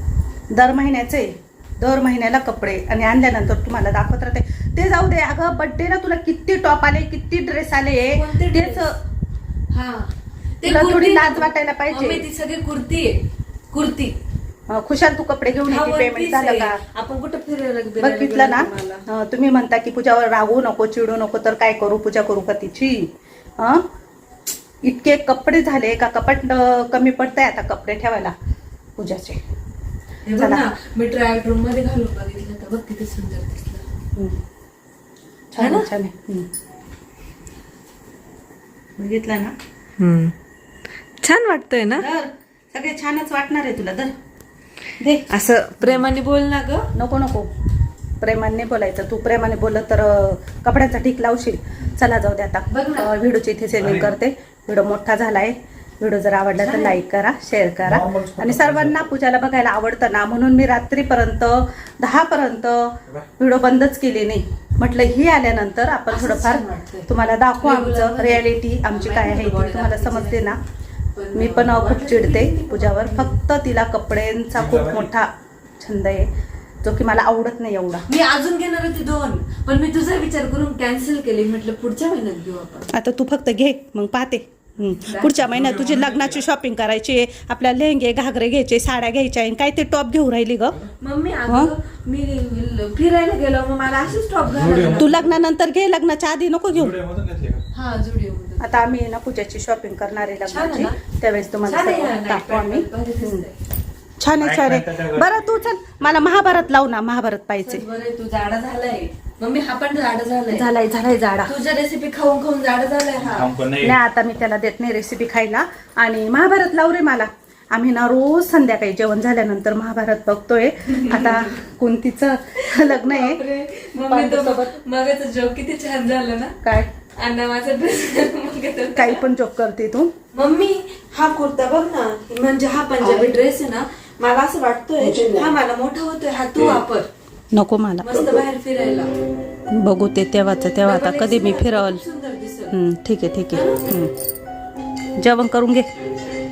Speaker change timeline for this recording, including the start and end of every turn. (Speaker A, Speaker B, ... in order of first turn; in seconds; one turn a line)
Speaker A: 0.5-9.0
Speaker B: 8.1-8.8
Speaker B: 9.7-14.2
Speaker A: 10.6-12.2
Speaker A: 14.7-16.8
Speaker B: 15.6-19.0
Speaker A: 18.0-23.9
Speaker A: 24.8-28.3
Speaker A: 29.0-29.4
Speaker B: 30.2-33.8
Speaker A: 30.4-30.7
Speaker A: 35.5-36.5
Speaker B: 35.6-35.9
Speaker A: 39.0-39.5
Speaker B: 40.0-40.3
Speaker B: 41.2-42.0
Speaker A: 41.9-44.1
Speaker A: 45.0-45.3
Speaker B: 45.3-46.9
Speaker A: 46.9-47.5
Speaker A: 48.2-70.6
Speaker B: 52.7-53.1
Speaker C: 53.7-54.1
Speaker B: 56.6-57.0
Speaker C: 57.8-59.0
Speaker B: 66.1-67.1
Speaker B: 67.6-70.6
Speaker B: 71.2-73.3
Speaker A: 71.3-75.3
Speaker C: 74.5-75.1
Speaker A: 75.8-76.3
Speaker A: 76.8-78.0
Speaker B: 78.1-82.9
Speaker A: 82.9-90.8
Speaker B: 84.9-85.4
Speaker C: 85.4-86.4
Speaker B: 91.0-95.3
Speaker A: 91.5-91.7
Speaker C: 94.5-95.3
Speaker A: 95.0-96.9
Speaker C: 96.7-97.6
Speaker B: 97.7-98.8
Speaker A: 98.6-103.4
Speaker B: 100.5-101.0
Speaker B: 101.6-103.5
Speaker A: 104.2-107.8
Speaker C: 104.3-105.4
Speaker B: 107.6-110.7
Speaker A: 110.5-111.5
Speaker B: 111.5-113.5
Speaker C: 113.2-114.0
Speaker A: 113.8-123.4
Speaker B: 121.1-121.5
Speaker B: 122.6-126.5
Speaker A: 124.0-124.8
Speaker A: 126.6-126.9
Speaker B: 127.2-129.2
Speaker A: 128.9-130.1
Speaker B: 130.3-137.1
Speaker A: 133.0-133.3
Speaker A: 135.0-135.5
Speaker A: 137.5-138.2
Speaker B: 138.0-139.1
Speaker A: 139.7-142.0
Speaker B: 140.8-142.7
Speaker A: 142.7-144.1
Speaker B: 143.5-143.8
Speaker A: 145.2-145.9